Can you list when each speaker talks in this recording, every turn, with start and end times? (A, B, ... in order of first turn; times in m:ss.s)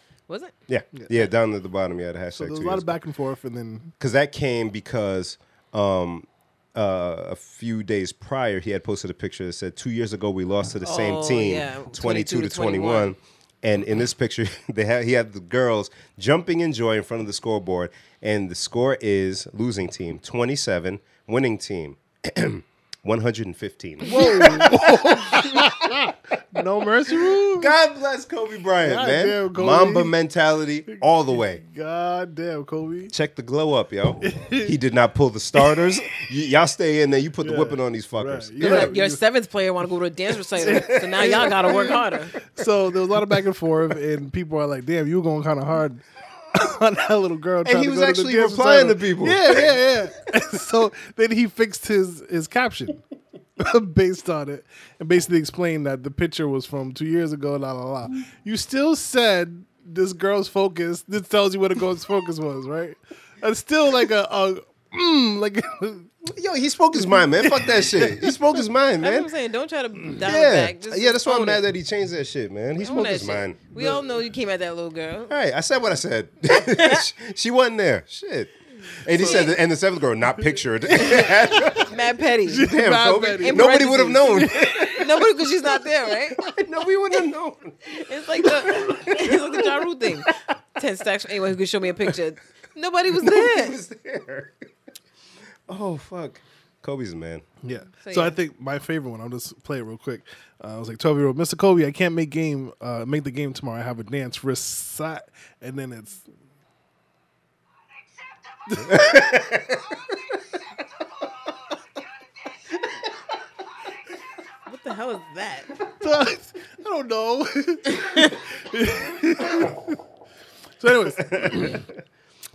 0:00.3-0:00.5 A
0:00.7-0:02.9 B
0:01.0-0:01.2 C
0:02.3-0:03.9 C
0:04.0-0:26.1 B
0:10.8-0:13.1 A
0:24.0-0:27.8 C
0:27.3-0:31.6 B
0:28.8-0:30.1 C
0:30.9-0:33.1 C
0:33.1-0:38.9 B
0:34.2-0:34.8 C
0:35.6-0:35.8 C
0:37.4-0:39.2 C
0:38.6-0:42.4 A
0:40.6-0:53.0 C
0:40.9-0:41.5 B
0:47.6-0:49.8 B
0:53.6-1:06.1 C
1:06.2-1:09.3 B
1:07.0-1:08.4 C
1:09.0-1:11.6 A
1:10.2-1:13.6 B
1:12.8-1:15.4 A
1:15.3-1:22.0 B
1:16.5-1:17.1 A
1:19.1-1:19.6 A
1:20.9-1:22.8 A
1:22.4-1:24.9 C
1:22.6-1:25.4 B
1:23.4-1:26.5 A
1:26.3-1:30.3 B
1:27.9-1:33.8 A
1:33.1-1:34.6 B
1:35.7-1:37.4 B
1:37.6-1:46.3 C
1:38.0-1:38.4 A
1:48.7-1:49.2 C
1:48.8-1:50.1 B
1:54.7-1:55.7 A
1:55.9-2:00.0 C
2:00.8-2:01.9 C
2:01.3-2:01.8 B